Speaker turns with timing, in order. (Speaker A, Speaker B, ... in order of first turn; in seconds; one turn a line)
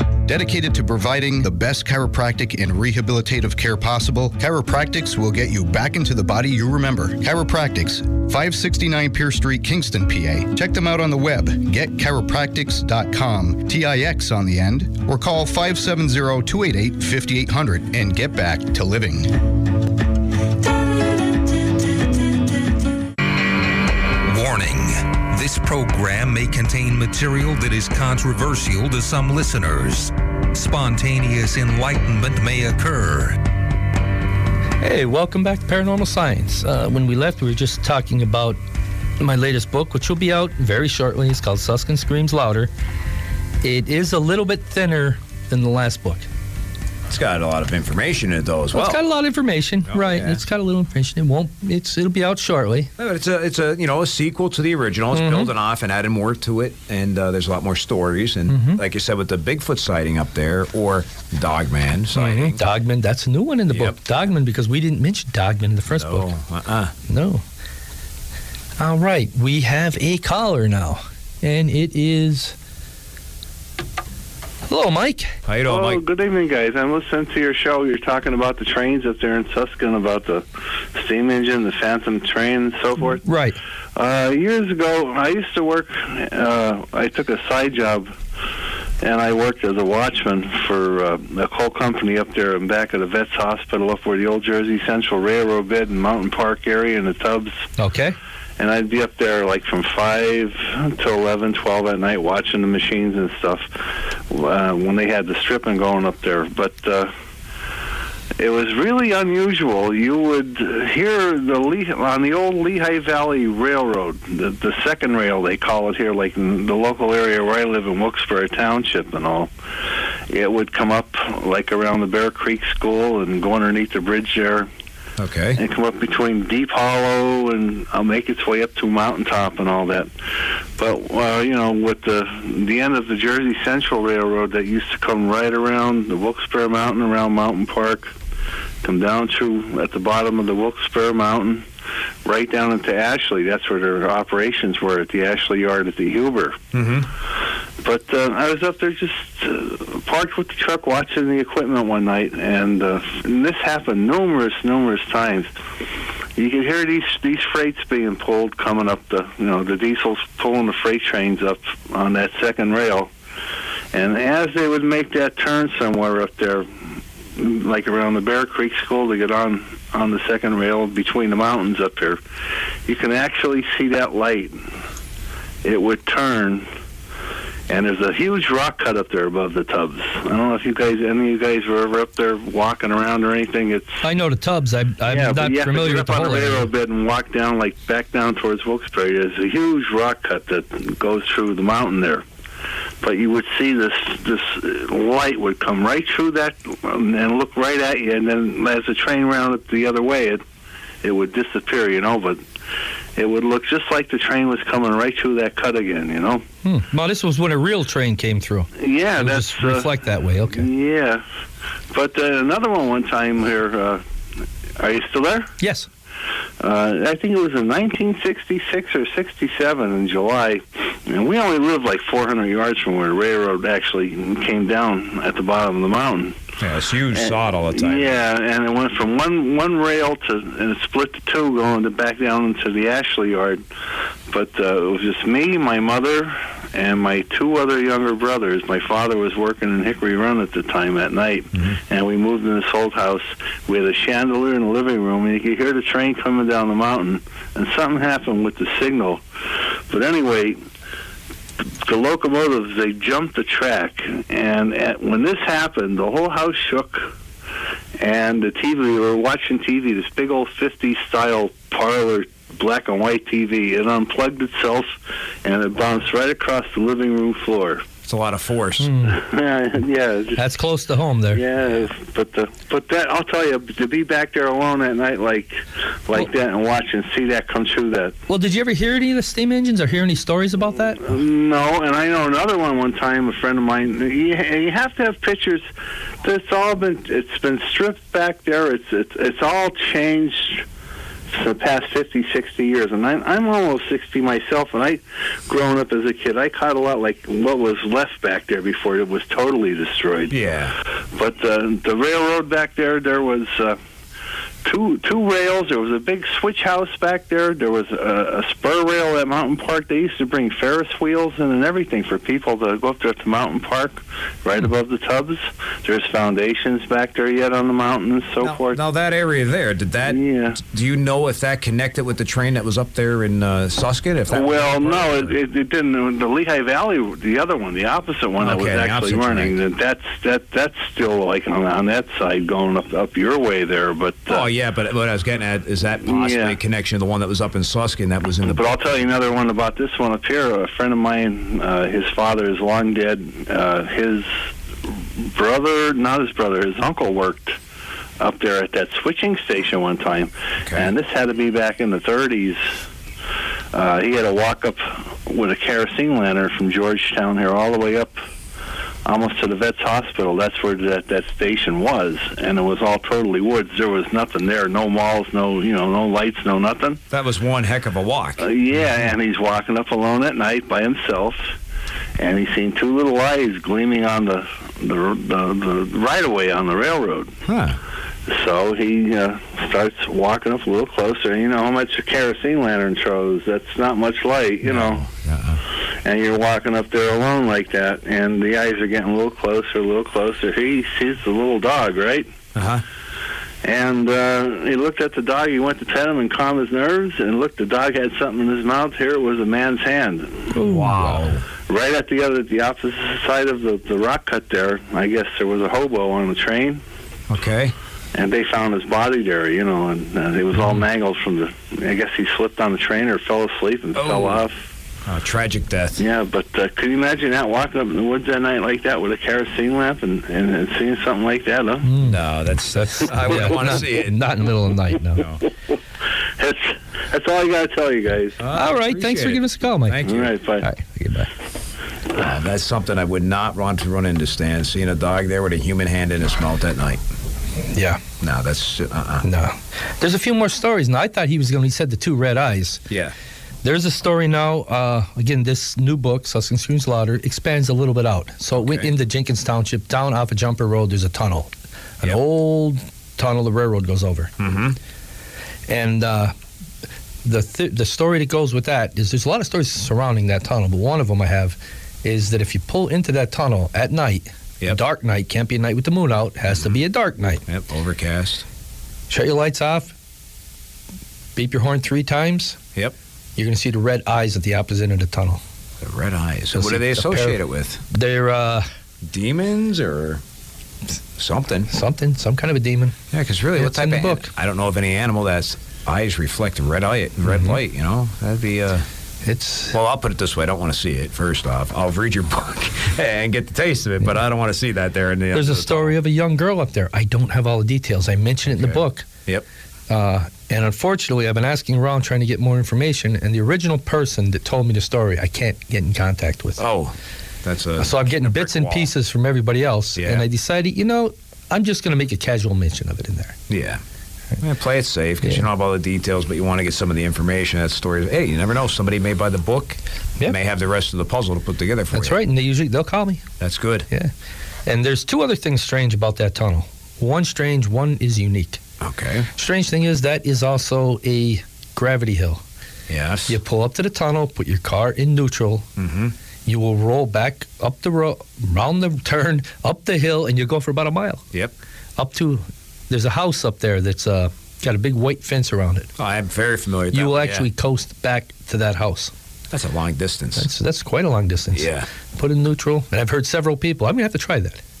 Speaker A: 0.2-19.4
Speaker B: 24.2-33.4
Speaker C: 34.8-38.6
Speaker C: 39.2-42.7
Speaker C: 43.6-46.3
Speaker D: 47.1-49.0
Speaker C: 48.7-52.9
Speaker D: 49.9-50.4
Speaker D: 53.0-62.6
Speaker C: 55.1-55.5
Speaker C: 58.5-58.8
Speaker C: 62.1-66.3
Speaker D: 63.7-64.0
Speaker D: 65.9-66.9
Speaker C: 67.1-67.4
Speaker C: 68.8-72.5
Speaker C: 74.7-75.3
Speaker D: 75.5-76.0
Speaker E: 75.6-83.2
Speaker C: 83.1-83.6
Speaker E: 84.0-88.1
Speaker E: 89.0-97.6
Speaker C: 97.8-98.2
Speaker E: 98.6-107.1
Speaker E: 108.4-119.5
Speaker E: 120.3-124.7
Speaker D: 125.2-125.6
Speaker E: 125.6-130.1
Speaker E: 130.8-138.1
Speaker E: 138.8-141.7
Speaker E: 142.2-146.6
Speaker D: 146.7-147.1
Speaker E: 147.8-155.5
Speaker E: 156.3-163.1
Speaker E: 163.9-166.7
Speaker E: 167.3-172.2
Speaker E: 172.8-174.6
Speaker E: 175.6-176.7
Speaker E: 177.7-184.0
Speaker C: 184.0-186.7
Speaker E: 185.1-192.2
Speaker E: 193.0-200.4
Speaker E: 201.0-202.4
Speaker E: 203.2-206.4
Speaker C: 206.6-210.7
Speaker E: 208.8-210.0
Speaker E: 210.5-211.2
Speaker E: 211.9-214.0
Speaker E: 214.8-215.5
Speaker C: 215.6-215.9
Speaker E: 216.6-226.4
Speaker D: 226.6-228.2
Speaker E: 227.1-233.6
Speaker E: 234.3-249.2
Speaker E: 249.9-250.6
Speaker E: 251.8-257.1
Speaker E: 258.0-267.9
Speaker D: 268.0-268.9
Speaker C: 268.8-269.2
Speaker E: 269.1-270.4
Speaker C: 270.4-271.4
Speaker E: 271.3-278.1
Speaker C: 278.3-281.2
Speaker E: 281.0-285.6
Speaker E: 286.2-290.6
Speaker E: 291.3-300.3
Speaker D: 300.3-300.7
Speaker E: 301.1-303.8
Speaker E: 304.6-318.8
Speaker D: 318.4-325.4
Speaker E: 320.0-320.6
Speaker E: 324.3-334.5
Speaker D: 328.4-329.5
Speaker D: 334.3-338.7
Speaker E: 336.0-336.6
Speaker E: 338.4-344.4
Speaker E: 345.2-347.6
Speaker E: 348.2-352.8
Speaker D: 350.6-350.9
Speaker E: 353.7-358.2
Speaker E: 359.1-367.0
Speaker D: 367.1-368.5
Speaker E: 368.4-371.5
Speaker E: 372.2-377.4
Speaker D: 377.4-377.8
Speaker E: 378.3-385.0
Speaker D: 384.6-385.6
Speaker E: 385.9-392.3
Speaker D: 392.5-392.8
Speaker E: 393.6-400.5
Speaker C: 400.5-401.2
Speaker D: 400.6-401.5
Speaker E: 401.6-406.8
Speaker D: 407.3-407.7
Speaker E: 408.1-414.6
Speaker D: 413.9-414.4
Speaker D: 415.0-416.0
Speaker E: 416.0-421.9
Speaker C: 421.8-425.2
Speaker D: 422.0-424.2
Speaker E: 426.4-428.4
Speaker D: 428.4-430.4
Speaker C: 428.5-430.0
Speaker E: 430.0-430.6
Speaker C: 430.6-431.3
Speaker D: 432.1-437.0
Speaker C: 437.7-438.0
Speaker D: 438.2-439.3
Speaker C: 439.2-442.8
Speaker C: 443.6-454.3
Speaker D: 448.5-448.9
Speaker D: 454.4-454.8
Speaker C: 455.7-456.3
Speaker C: 457.2-467.4
Speaker D: 467.5-468.4
Speaker C: 469.1-469.9
Speaker C: 471.4-472.6
Speaker C: 473.4-475.4
Speaker D: 475.8-477.8
Speaker C: 476.5-478.6
Speaker D: 479.0-480.2
Speaker D: 481.2-481.7
Speaker C: 481.7-482.9
Speaker D: 483.1-488.9
Speaker C: 483.6-484.3
Speaker C: 487.2-487.6
Speaker C: 489.2-489.7
Speaker D: 489.7-496.0
Speaker C: 495.3-499.1
Speaker D: 498.5-499.4
Speaker C: 499.9-506.6
Speaker D: 506.6-508.9
Speaker C: 507.8-513.4
Speaker D: 509.9-510.2
Speaker D: 513.5-513.8
Speaker D: 514.4-522.2
Speaker C: 521.9-523.2
Speaker D: 523.4-523.9
Speaker C: 524.6-528.6
Speaker D: 528.8-529.3
Speaker C: 529.3-532.4
Speaker D: 532.9-533.4
Speaker C: 533.3-535.6
Speaker D: 535.8-536.1
Speaker C: 536.5-541.2
Speaker C: 542.0-545.9
Speaker D: 546.0-547.5
Speaker C: 546.9-549.1
Speaker D: 549.5-550.5
Speaker C: 550.4-554.6
Speaker D: 551.5-551.9